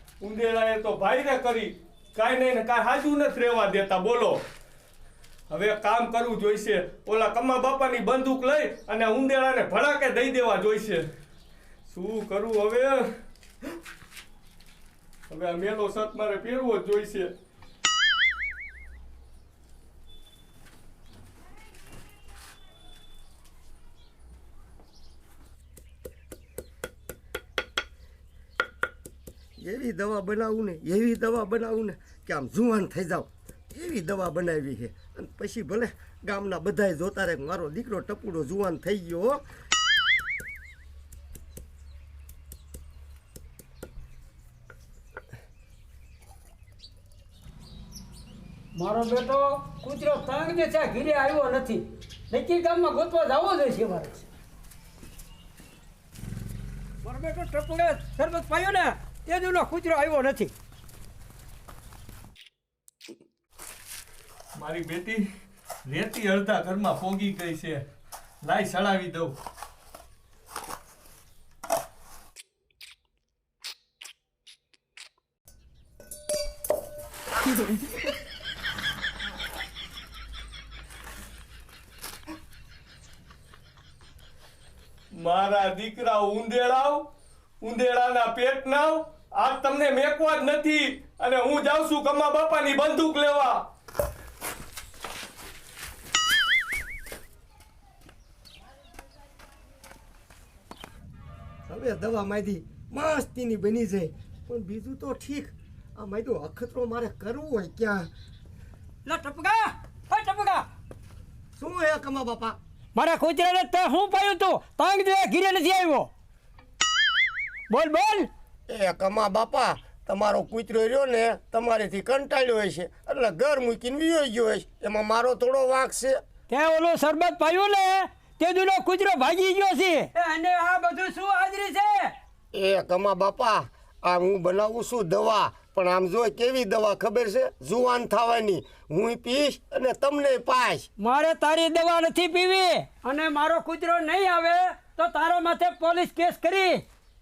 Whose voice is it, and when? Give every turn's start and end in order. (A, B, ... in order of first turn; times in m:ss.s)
0:00.2-0:04.4 A
0:05.5-0:11.0 A
0:11.9-0:13.1 A
0:15.3-0:17.3 A
0:29.6-0:39.4 B
0:48.8-0:54.3 C
0:57.0-1:00.5 C
1:04.6-1:05.2 A
1:05.9-1:07.9 A
1:08.4-1:09.4 A
1:25.2-1:27.1 A
1:27.6-1:33.6 A
1:41.7-1:48.1 B
1:49.0-1:50.7 C
1:51.6-1:52.6 B
1:53.0-1:56.1 C
1:57.7-1:58.3 C
1:58.7-2:06.2 B
2:06.5-2:12.1 C
2:12.5-2:20.9 B
2:21.0-2:26.8 C